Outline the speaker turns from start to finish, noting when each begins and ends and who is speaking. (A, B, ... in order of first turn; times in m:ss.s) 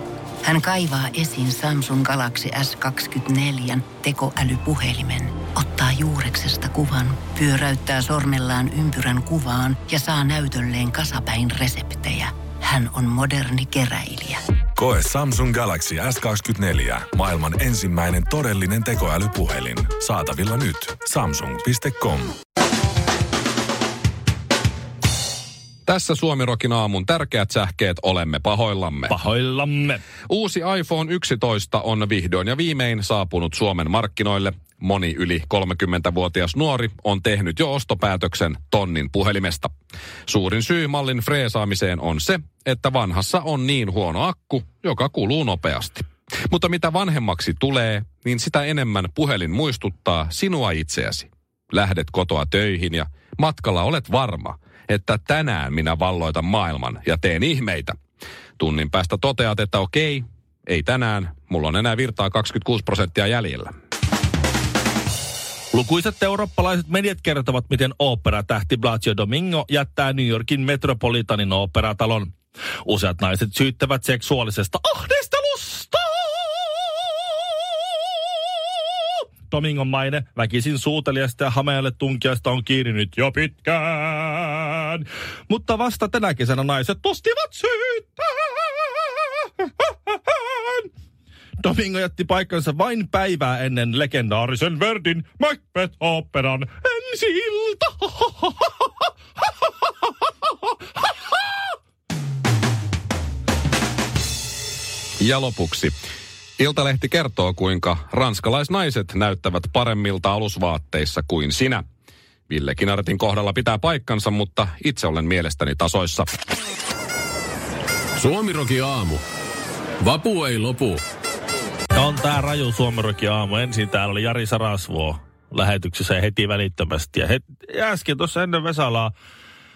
0:00.4-0:14.4 A
0:14.8-0:22.3 B
0:25.8-0:29.1 C
0:29.1-0:30.0 D
0:30.3-0:39.7 C
0:40.3-0:58.0 C
0:58.6-1:03.7 C
1:05.7-1:16.7 D
1:19.5-1:28.8 D
1:30.3-1:30.9 D
1:31.6-1:38.7 D
1:45.2-1:46.0 C
1:46.6-1:51.8 C
1:52.5-1:56.3 C
1:58.2-1:59.2 E
2:00.0-2:01.0 E
2:01.9-2:09.1 D